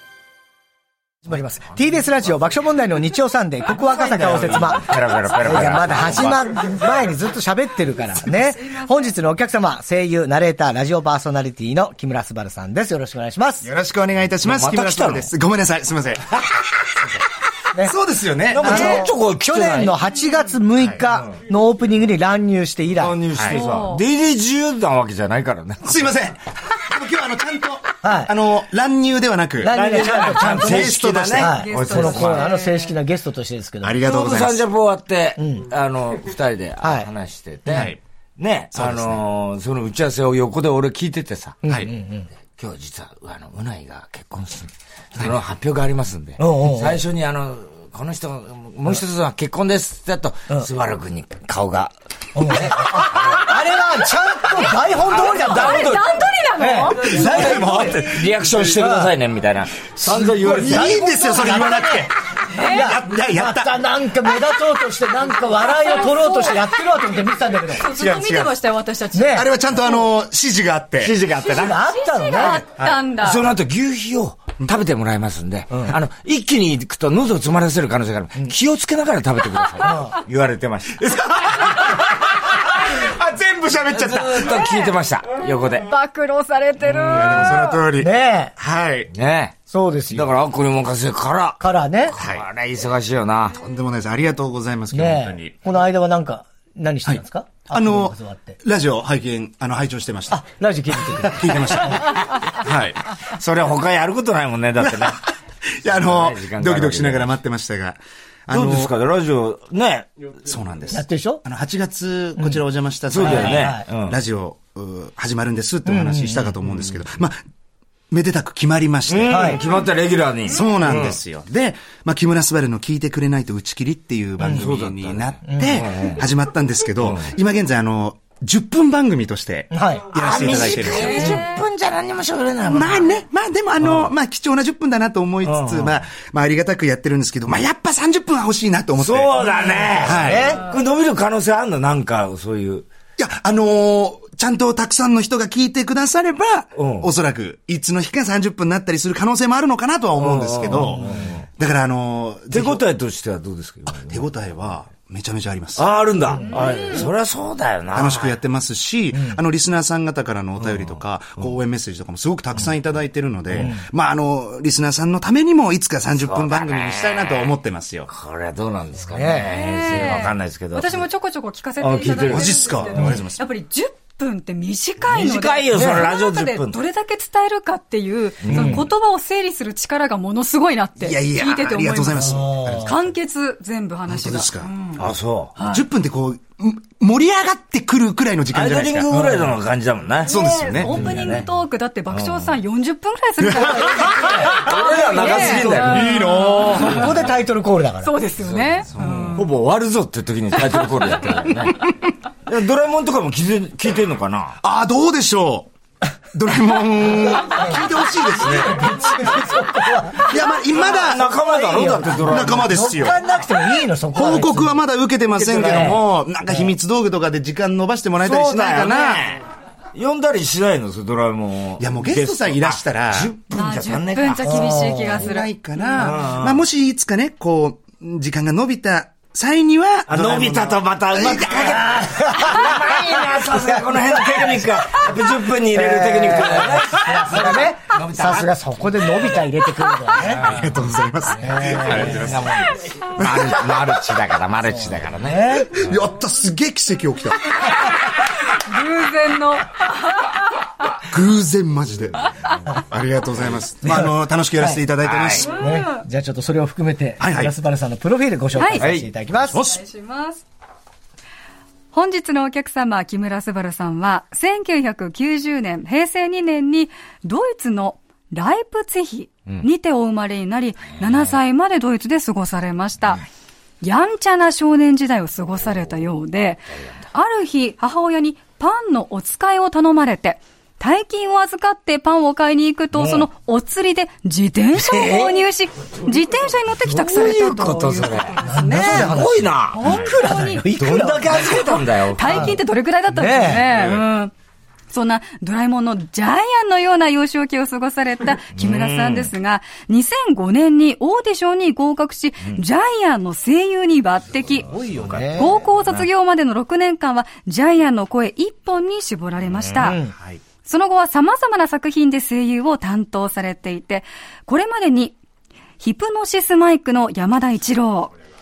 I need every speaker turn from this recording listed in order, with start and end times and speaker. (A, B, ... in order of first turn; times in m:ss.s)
0:01.2-0:04.9 A
0:03.7-0:06.4 B
0:05.4-0:13.7 A
0:08.4-0:09.1 C
0:13.6-0:17.1 D
0:14.4-0:15.3 B
0:17.8-0:19.0 D
0:18.5-0:20.0 B
0:18.6-0:23.2 A
0:23.0-0:26.0 B
0:23.3-0:23.6 D
0:23.5-0:24.0 C
0:25.8-0:32.1 D
0:28.0-0:28.3 A
0:29.6-0:34.0 A
0:29.7-0:32.4 B
0:31.4-0:32.9 C
0:33.8-0:34.6 D
0:34.0-0:41.6 B
0:35.4-0:35.6 A
0:36.8-0:37.1 A
0:37.7-0:38.0 D
0:38.7-0:39.2 D
0:41.6-0:42.3 A
0:41.6-0:41.9 D
0:42.5-0:53.9 B
0:46.4-0:47.0 A
0:52.3-0:56.0 A
0:54.5-0:56.3 B
0:55.1-0:57.9 C
0:56.6-0:58.0 A
0:57.0-1:01.1 B
0:57.3-0:58.0 D
0:58.6-0:59.1 A
1:00.0-1:07.9 A
1:00.1-1:02.1 D
1:02.5-1:02.9 C
1:02.7-1:03.9 D
1:05.7-1:06.7 C
1:07.7-1:09.7 C
1:07.9-1:08.6 D
1:09.1-1:09.5 A
1:09.3-1:11.2 D
1:11.0-1:11.8 B
1:11.4-1:12.6 A
1:11.6-1:13.4 C
1:12.6-1:13.0 D
1:13.2-1:21.0 B
1:19.8-1:20.1 A
1:21.0-1:24.7 D
1:23.9-1:25.9 B
1:25.8-1:27.8 C
1:26.9-1:29.1 D
1:28.0-1:28.5 A
1:29.1-1:29.6 B
1:29.7-1:30.3 A
1:30.1-1:33.6 B
1:31.6-1:32.1 A
1:32.2-1:32.4 D
1:33.6-1:35.5 D
1:34.9-1:38.6 A
1:37.1-1:40.4 D
1:40.3-1:42.0 A
1:41.1-1:43.0 D
1:43.2-1:45.3 B
1:44.8-1:48.9 D
1:45.8-1:47.3 B
1:48.5-1:50.1 B
1:50.4-1:57.4 D
1:50.9-1:51.4 A
1:53.1-1:54.2 B
1:53.2-1:53.8 A
1:55.8-1:56.5 A
1:58.1-1:59.6 D
1:59.1-2:01.2 B
1:59.3-1:59.6 A
2:00.5-2:11.4 D
2:04.4-2:06.2 B
2:05.4-2:05.8 A
2:07.0-2:07.3 B
2:09.7-2:10.2 A
2:10.1-2:13.1 B
2:10.4-2:11.6 C
2:12.6-2:19.4 D
2:13.8-2:14.1 B
2:15.4-2:15.9 B
2:19.0-2:22.9 B
2:19.4-2:20.7 C
2:20.0-2:20.6 D
2:20.1-2:20.6 A
2:23.2-2:32.8 D
2:26.8-2:27.1 B
2:30.2-2:31.4 B
2:30.7-2:31.3 A
2:32.5-2:34.2 B
2:33.9-2:35.9 D
2:35.8-2:38.3 B
2:36.5-2:37.1 C
2:37.9-2:48.1 D
2:39.1-2:39.4 A
2:40.6-2:41.0 B
2:43.5-2:43.8 A
2:46.2-2:47.5 B
2:48.1-2:51.0 B
2:49.1-2:49.6 A
2:49.3-3:05.0 C
2:51.8-2:52.8 B
2:52.3-2:53.4 D
2:52.9-2:53.2 A
2:55.1-2:56.8 B
2:55.7-2:56.0 A
2:58.4-2:58.8 B
2:58.5-2:58.8 A
3:01.0-3:03.1 D
3:02.1-3:02.9 A
3:04.1-3:04.7 D
3:05.0-3:05.6 B
3:05.6-3:09.1 D
3:08.5-3:11.5 B
3:09.1-3:09.5 A
3:10.2-3:11.0 D
3:10.3-3:17.0 C
3:12.1-3:12.5 B
3:13.4-3:13.9 D
3:14.0-3:18.1 A
3:14.1-3:17.1 B
3:15.7-3:17.1 D
3:18.0-3:19.5 C
3:18.8-3:19.3 D
3:19.3-3:21.9 B
3:22.4-3:24.5 B
3:24.6-3:25.7 D
3:26.3-3:29.2 D
3:27.4-3:30.4 A
3:30.2-3:31.3 D
3:30.7-3:33.2 B
3:31.3-3:34.8 A
3:32.1-3:33.2 D
3:34.1-3:39.4 D
3:35.4-3:36.0 B
3:35.5-3:36.0 A
3:38.2-3:39.4 B
3:39.9-3:44.9 B
3:41.8-3:43.3 D
3:43.5-3:46.2 C
3:44.4-3:45.2 A
3:45.1-3:52.0 D
3:46.0-3:46.6 B
3:50.1-3:58.5 B
3:51.7-3:54.7 A
3:55.7-4:00.7 A
4:00.2-4:04.0 D
4:01.3-4:02.4 A
4:01.7-4:05.9 B
4:04.7-4:05.8 A
4:05.7-4:07.5 D
4:08.0-4:11.0 C
4:11.0-4:15.5 D
4:13.8-4:14.8 A
4:15.0-4:15.5 B
4:15.4-4:19.6 A
4:15.6-4:16.0 C
4:17.2-4:17.5 D
4:18.5-4:18.8 C
4:18.8-4:19.1 B
4:19.5-4:20.4 C
4:19.5-4:19.8 D
4:21.9-4:33.2 C
4:31.0-4:31.3 B
4:33.8-4:50.7 C
4:42.9-4:43.3 B
4:44.8-4:45.4 B
4:46.8-4:49.8 B
4:48.4-4:51.5 A
4:50.8-4:52.6 B
4:51.3-4:54.3 C
4:52.3-4:52.6 A
4:53.1-4:53.7 A
4:54.9-5:10.0 C
4:58.6-4:59.3 B
5:04.7-5:05.6 A
5:04.7-5:06.0 B
5:09.8-5:10.1 A
5:10.6-5:15.1 C
5:15.8-5:18.1 C